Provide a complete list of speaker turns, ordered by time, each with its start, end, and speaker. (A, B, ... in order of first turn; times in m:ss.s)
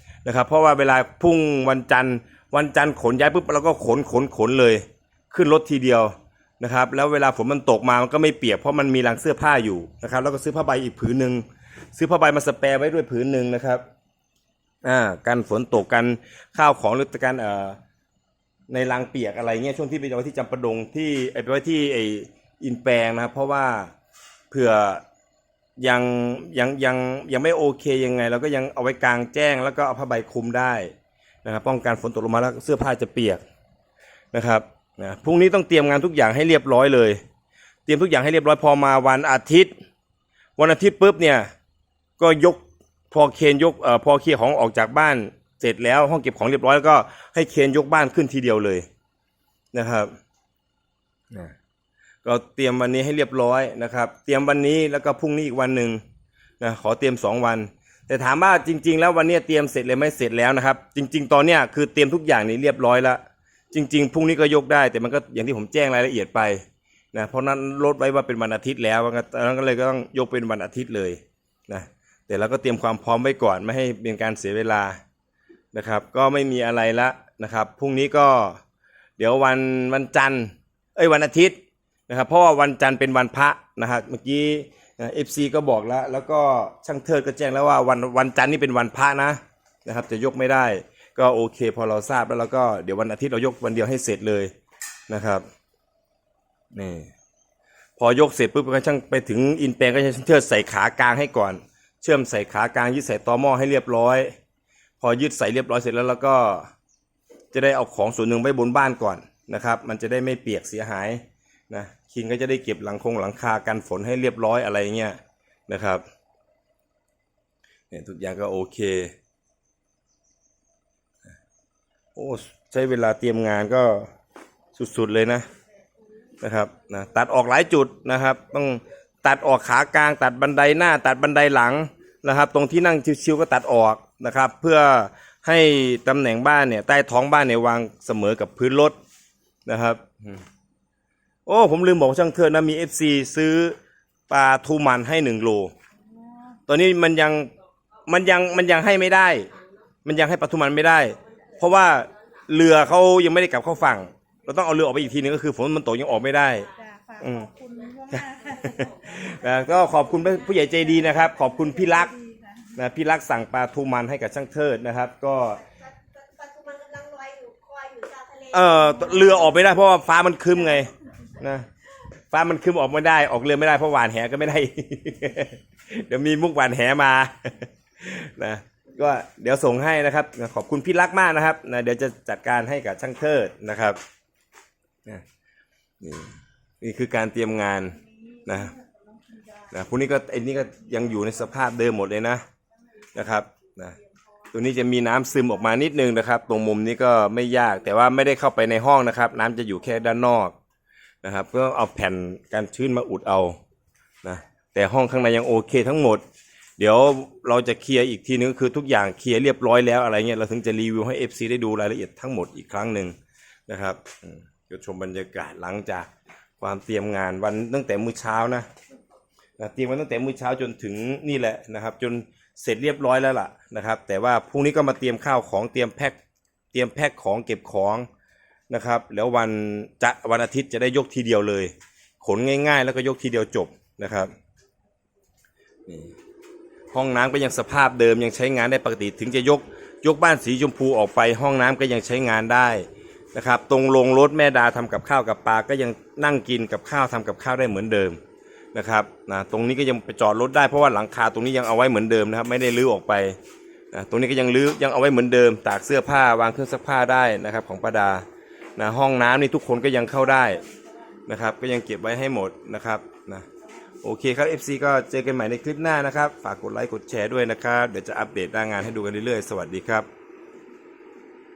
0:00.2-0:13.8 A
0:14.8-0:17.8 A
0:18.7-0:23.9 A
0:24.5-0:25.0 A
0:25.8-0:30.9 A
0:31.4-0:33.4 A
0:34.3-0:37.2 A
0:37.8-0:39.7 A
0:40.6-0:41.5 A
0:42.2-0:48.8 A
0:49.7-0:50.1 A
0:52.2-0:56.0 A
0:56.6-1:15.0 A
1:15.7-1:18.6 A
1:19.2-1:34.5 A
1:35.1-1:35.4 A
1:36.7-1:37.1 A
1:38.0-1:44.3 A
1:45.0-1:46.7 A
1:47.5-1:56.0 A
1:57.9-1:59.1 A
2:02.2-2:04.1 A
2:04.7-2:05.5 A
2:06.4-2:19.0 A
2:19.6-2:20.4 A
2:21.4-2:23.8 A
2:24.3-2:25.7 A
2:26.1-2:26.6 B
2:26.7-2:27.5 A
2:28.1-2:29.5 A
2:28.2-2:30.0 C
2:30.0-2:36.7 A
2:31.1-2:32.8 C
2:36.5-2:36.9 C
2:36.7-2:38.7 B
2:37.2-2:37.5 A
2:37.6-2:41.3 C
2:38.1-2:42.1 A
2:41.0-2:42.8 B
2:42.7-2:45.6 A
2:45.6-2:49.9 C
2:48.5-2:51.7 A
2:52.3-3:04.0 A
3:06.0-3:08.8 A
3:08.0-3:09.7 B
3:09.7-3:12.4 A
3:13.1-3:14.0 A
3:14.5-3:20.6 A
3:21.2-3:23.6 A
3:24.2-3:26.2 A
3:26.8-3:33.2 A
3:33.7-3:36.1 A
3:36.6-3:38.7 A
3:39.6-3:46.2 A
3:46.7-3:48.1 A
3:48.7-3:54.3 A
3:55.9-3:56.1 A
3:56.9-4:08.2 A
4:08.7-4:13.4 A
4:13.9-4:20.6 A
4:21.2-4:23.5 A
4:24.0-4:30.1 A